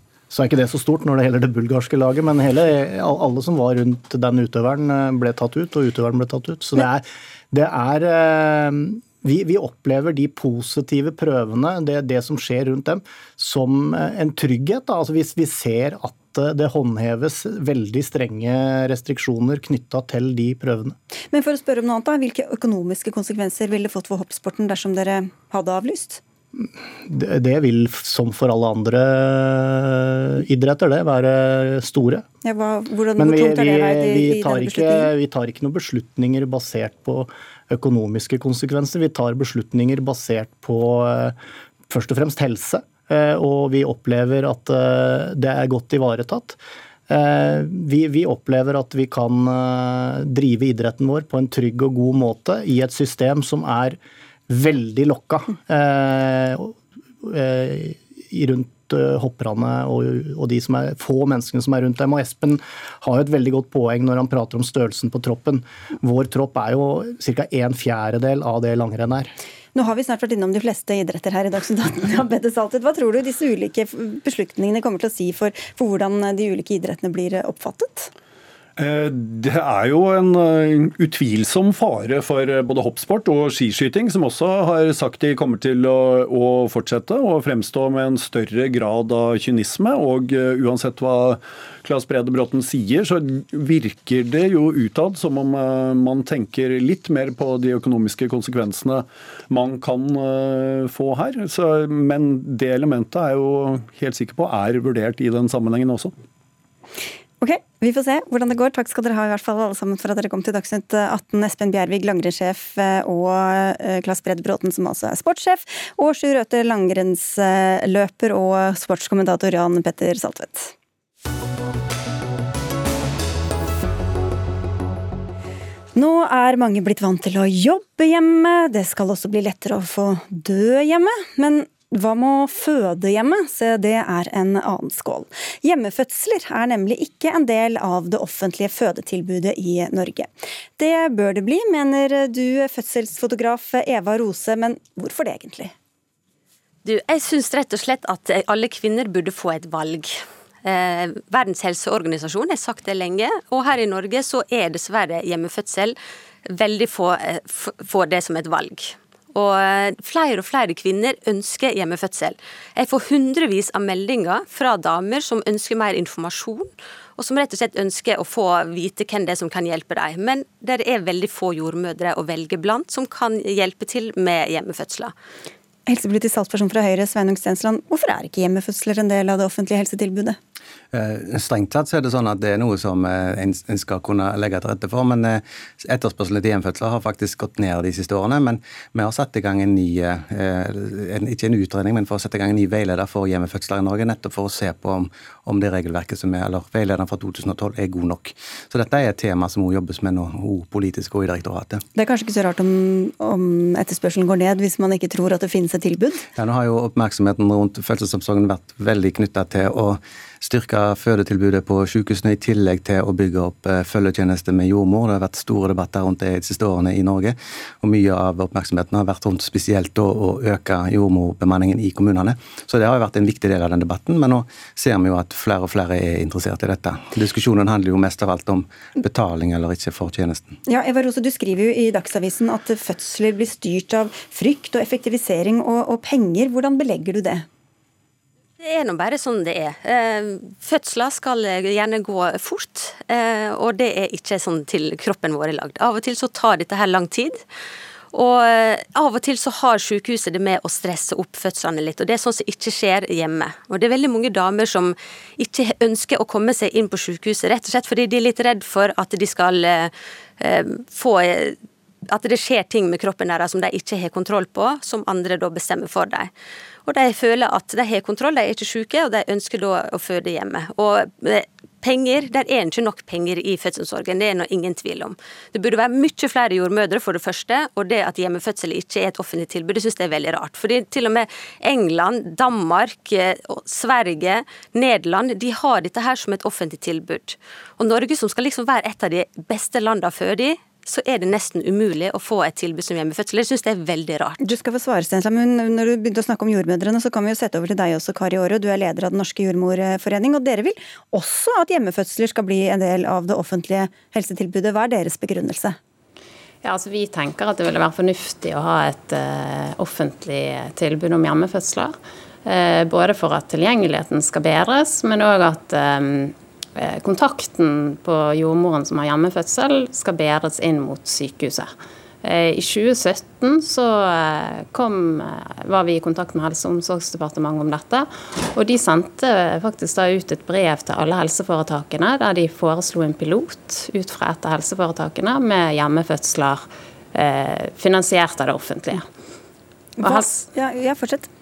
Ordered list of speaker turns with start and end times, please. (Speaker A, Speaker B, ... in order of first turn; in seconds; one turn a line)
Speaker A: 0.3-20.9
Speaker B: 21.3-26.2
Speaker A: 26.6-32.2
Speaker B: 32.4-35.1
Speaker A: 33.2-41.4
Speaker A: 41.9-54.0
Speaker A: 54.5-69.3
Speaker B: 69.7-78.1
Speaker C: 78.8-106.1
Speaker B: 107.4-120.7
Speaker B: 125.9-145.7
Speaker D: 146.8-155.9
Speaker D: 156.5-175.1
Speaker B: 175.9-180.4
Speaker E: 180.9-201.8
Speaker B: 201.9-206.2
Speaker E: 206.3-230.6
Speaker B: 230.7-237.4
Speaker D: 238.6-247.4
Speaker D: 248.1-266.3
Speaker D: 266.8-294.5
Speaker B: 294.4-305.8
Speaker F: 306.6-321.7
Speaker F: 322.2-339.1
Speaker F: 340.0-340.4
Speaker B: 340.0-341.3